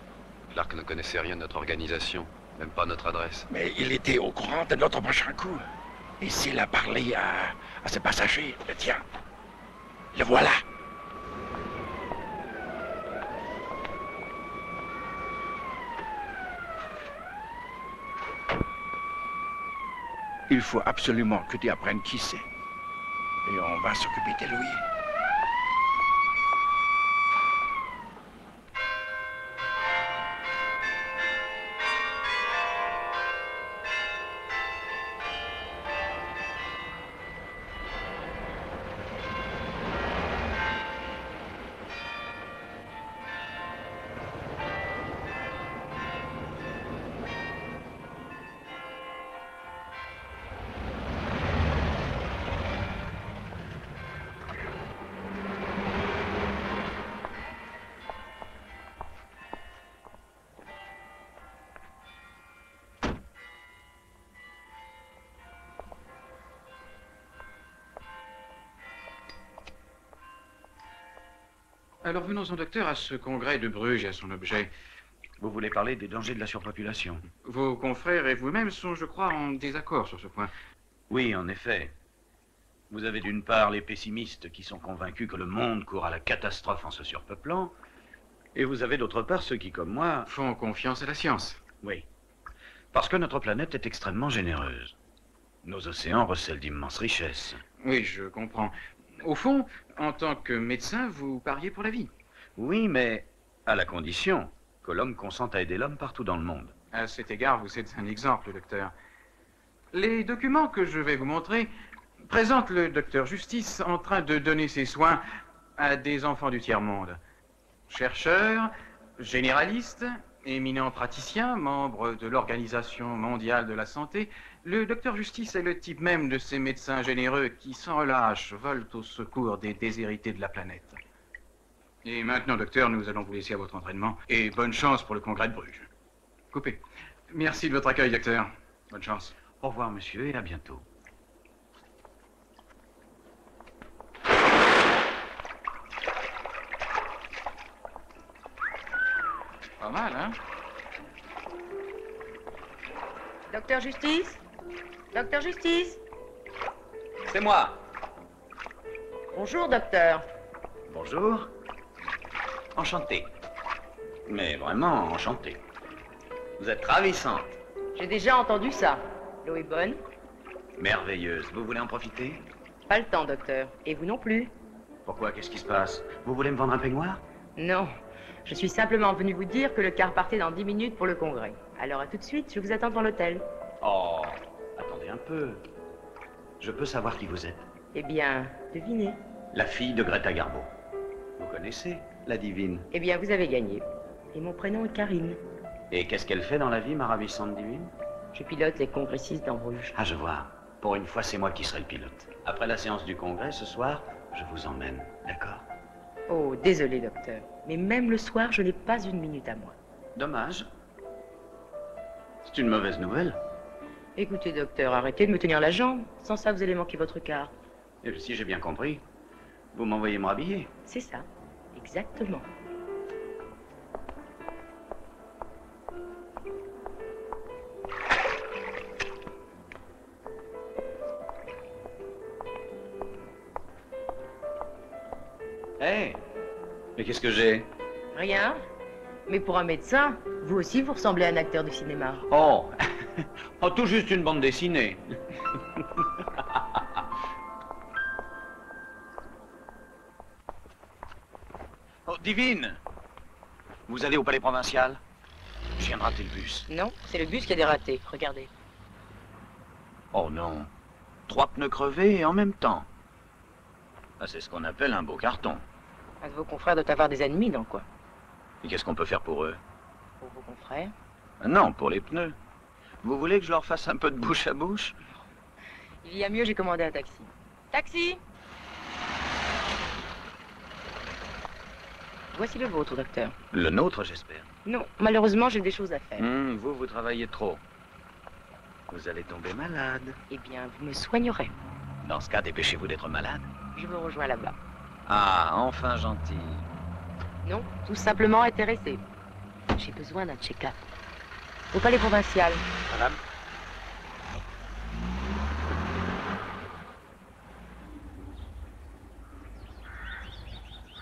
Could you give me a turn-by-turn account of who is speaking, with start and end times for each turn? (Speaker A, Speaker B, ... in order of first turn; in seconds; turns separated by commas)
Speaker A: 0.5-3.5, Speaker B: 3.5-5.7, Speaker B: 6.2-9.0, Speaker B: 10.1-10.6, Speaker B: 20.5-22.5, Speaker B: 23.4-24.8, Speaker C: 72.0-74.7, Speaker D: 75.4-77.3, Speaker C: 77.4-80.5, Speaker D: 81.1-81.9, Speaker D: 82.9-87.7, Speaker D: 88.5-90.3, Speaker C: 90.3-91.6, Speaker D: 91.8-92.1, Speaker D: 92.9-95.0, Speaker D: 95.6-97.6, Speaker C: 97.8-102.1, Speaker D: 102.6-106.7, Speaker C: 106.9-108.9, Speaker C: 109.9-111.7, Speaker C: 112.2-115.2, Speaker C: 115.8-117.2, Speaker C: 117.9-131.0, Speaker C: 132.0-135.9, Speaker C: 136.5-139.3, Speaker D: 139.6-140.8, Speaker C: 149.8-150.4, Speaker E: 153.5-154.4, Speaker E: 155.1-156.0, Speaker D: 157.3-157.8, Speaker E: 159.3-160.2, Speaker D: 160.9-161.5, Speaker D: 162.8-163.3, Speaker D: 164.3-165.6, Speaker D: 166.6-167.5, Speaker E: 168.0-170.0, Speaker D: 170.8-172.4, Speaker E: 172.9-174.5, Speaker D: 175.1-177.2, Speaker E: 177.6-177.9, Speaker E: 178.5-183.4, Speaker D: 183.8-185.6, Speaker D: 186.6-187.7, Speaker E: 187.9-189.2, Speaker D: 189.5-190.7, Speaker D: 191.4-192.9, Speaker E: 192.9-195.4, Speaker D: 195.9-197.9, Speaker E: 198.3-199.9, Speaker D: 199.9-205.7, Speaker E: 206.3-209.8, Speaker D: 210.2-210.7, Speaker D: 212.4-213.4, Speaker E: 214.2-217.5, Speaker D: 218.0-219.1, Speaker D: 219.7-220.7, Speaker E: 220.9-222.5, Speaker D: 235.8-236.2, Speaker D: 237.0-237.7, Speaker E: 238.1-238.6, Speaker E: 239.3-242.2, Speaker D: 242.3-242.8, Speaker D: 243.6-245.0, Speaker D: 252.1-252.8, Speaker D: 253.9-255.0, Speaker D: 255.8-256.7, Speaker E: 256.7-258.5, Speaker D: 260.1-260.7, Speaker D: 261.3-262.9, Speaker D: 264.2-265.6, Speaker E: 266.2-267.9, Speaker D: 268.6-269.6, Speaker E: 270.2-270.9, Speaker D: 271.4-272.4, Speaker D: 273.0-274.9, Speaker E: 276.0-278.2, Speaker E: 282.3-283.4, Speaker D: 283.5-284.5, Speaker E: 284.6-286.3, Speaker D: 286.2-287.6, Speaker D: 288.9-290.2, Speaker E: 290.3-291.5, Speaker D: 292.0-293.5, Speaker E: 293.8-294.6, Speaker D: 295.1-296.7, Speaker E: 297.4-299.0, Speaker E: 299.8-300.8, Speaker E: 301.7-302.7, Speaker D: 302.9-303.2